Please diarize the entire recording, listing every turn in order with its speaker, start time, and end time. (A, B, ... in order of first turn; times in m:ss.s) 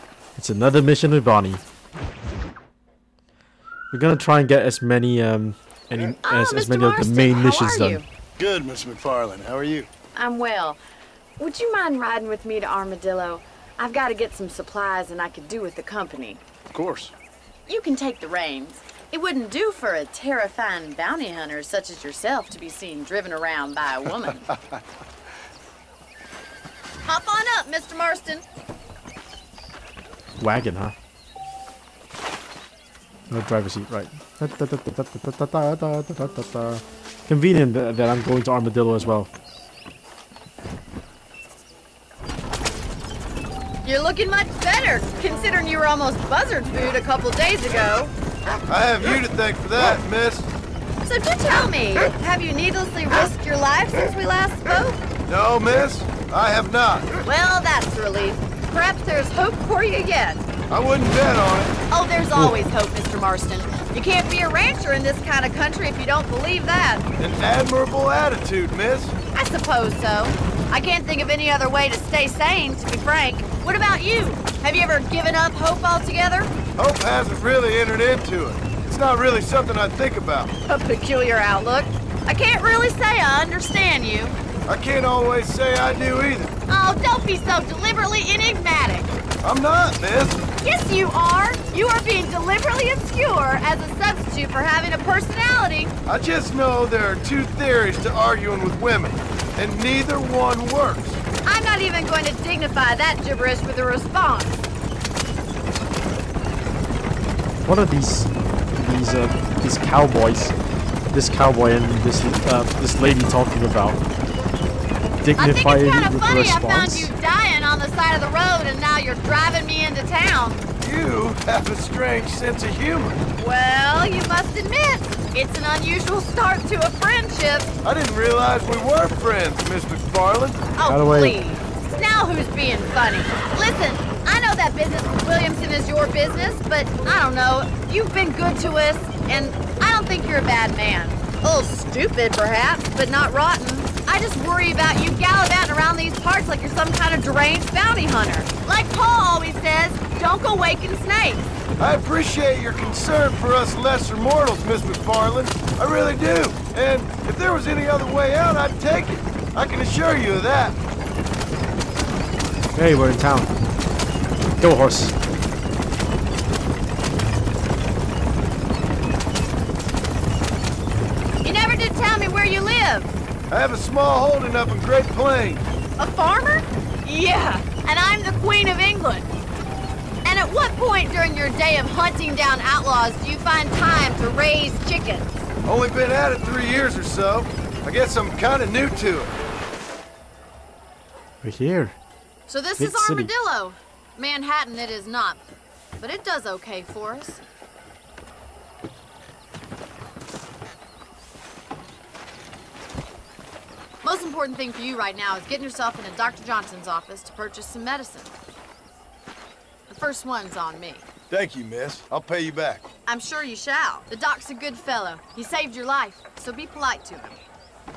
0:00.4-0:01.6 A
0:03.9-0:08.0 A
0:06.2-0:08.0 B
0:08.4-0:09.9 C
0:10.1-0:10.8 B
0:11.4-0:16.4 B
0:16.7-0:17.1 C
0:17.7-0:24.5 B
0:27.0-0:28.4 B
0:30.4-0:30.9 A
0:33.3-0:39.3 A
0:43.8-0:48.1 B
0:48.7-0:50.5 C
0:51.0-0:55.0 B
0:55.3-0:57.1 C
0:57.2-1:00.5 B
1:00.7-1:01.8 C
1:01.9-1:07.0 B
1:07.2-1:09.2 C
1:09.3-1:16.5 B
1:16.8-1:20.5 C
1:20.7-1:24.4 B
1:24.7-1:26.5 C
1:26.7-1:29.2 B
1:29.4-1:30.4 C
1:30.6-1:35.9 B
1:36.0-1:41.2 C
1:41.4-1:44.6 B
1:47.6-1:50.5 A
1:51.1-1:54.0 A
1:55.2-1:57.1 A
1:55.4-2:00.6 B
2:00.8-2:03.2 C
2:03.4-2:07.7 B
2:07.8-2:10.6 C
2:10.8-2:31.5 B
2:10.8-2:11.3 A
2:31.8-2:40.8 C
2:42.7-2:43.5 A
2:44.6-2:45.1 A
2:51.4-2:53.1 B
2:53.5-2:55.6 C
2:56.0-2:59.3 B
3:00.2-3:05.5 B
3:05.6-3:09.4 C
3:11.4-3:12.0 A
3:12.5-3:15.4 B
3:12.8-3:13.3 A
3:16.0-3:17.4 B
3:24.0-3:28.3 B
3:29.9-3:31.0 B
3:31.3-3:32.8 C
3:33.1-3:37.4 B